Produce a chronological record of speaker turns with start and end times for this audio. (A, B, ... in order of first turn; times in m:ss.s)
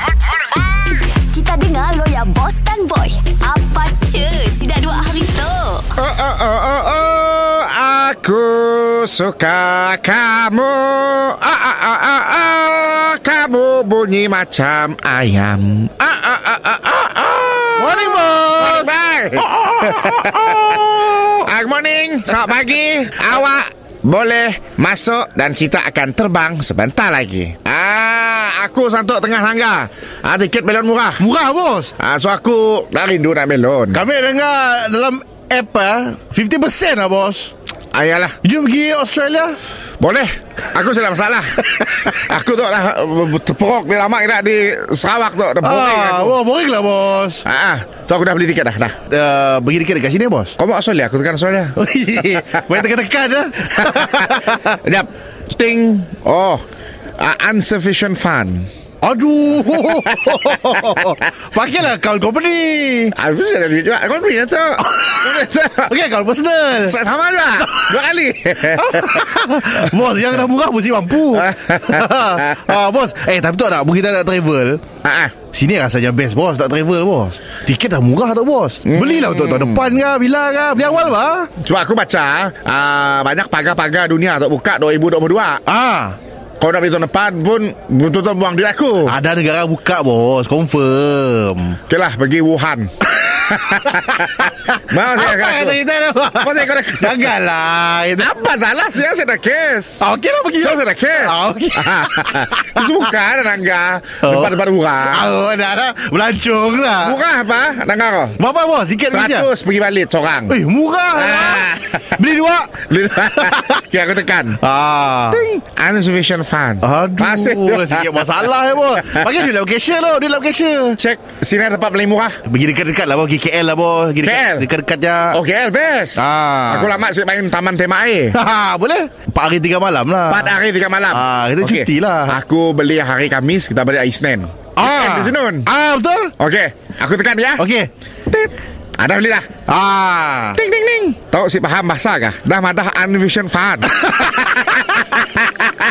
0:01.0-0:05.9 A
0:06.0-0:31.2 B
0:17.8-0:18.9 C
0:19.5-0:21.2 C
0:31.2-0:31.9 C
0:32.0-0:34.0 B
0:33.9-0:37.5 C
0:37.9-0:38.4 B
0:38.4-0:39.6 C
0:40.0-0:46.4 B
0:45.6-0:47.4 C
0:47.4-0:49.0 B
0:49.1-0:50.5 C
0:50.6-0:52.6 B
0:51.8-0:54.8 C
0:53.8-0:56.6 B
0:57.2-0:58.7 B
0:59.0-1:03.1 C
0:59.8-1:01.0 B
1:03.1-1:05.9 B
1:04.8-1:07.0 C
1:06.8-1:09.3 B
1:07.6-1:07.9 C
1:08.7-1:14.8 C
1:11.4-1:12.7 B
1:15.0-1:15.3 B
1:15.5-1:21.5 C
1:18.8-1:20.0 B
1:21.6-1:25.6 B
1:25.6-1:26.2 C
1:26.6-1:29.1 B
1:29.1-1:31.8 C
1:31.9-1:35.8 B
1:35.1-1:38.3 C
1:36.4-1:37.3 B
1:38.2-1:40.0 B
1:40.0-1:43.1 C
1:40.6-1:45.3 B
1:44.2-1:47.2 C
1:47.0-1:48.4 B
1:48.4-1:49.5 C
1:49.1-1:50.6 B
1:50.5-1:52.8 C
1:51.1-1:52.2 B
1:52.9-1:54.6 B
1:53.4-1:53.7 C
1:54.6-1:55.4 C
1:55.3-1:58.3 B
1:56.8-2:01.0 C
2:01.0-2:02.4 B
2:02.4-2:05.4 C
2:04.2-2:04.6 B
2:05.3-2:08.4 B
2:06.2-2:06.9 C
2:08.3-2:10.6 C
2:10.3-2:15.7 B
2:11.1-2:12.4 C
2:14.8-2:16.3 C
2:16.4-2:17.6 B
2:17.6-2:17.9 C
2:18.3-2:19.5 B
2:19.7-2:20.6 C
2:20.5-2:25.7 B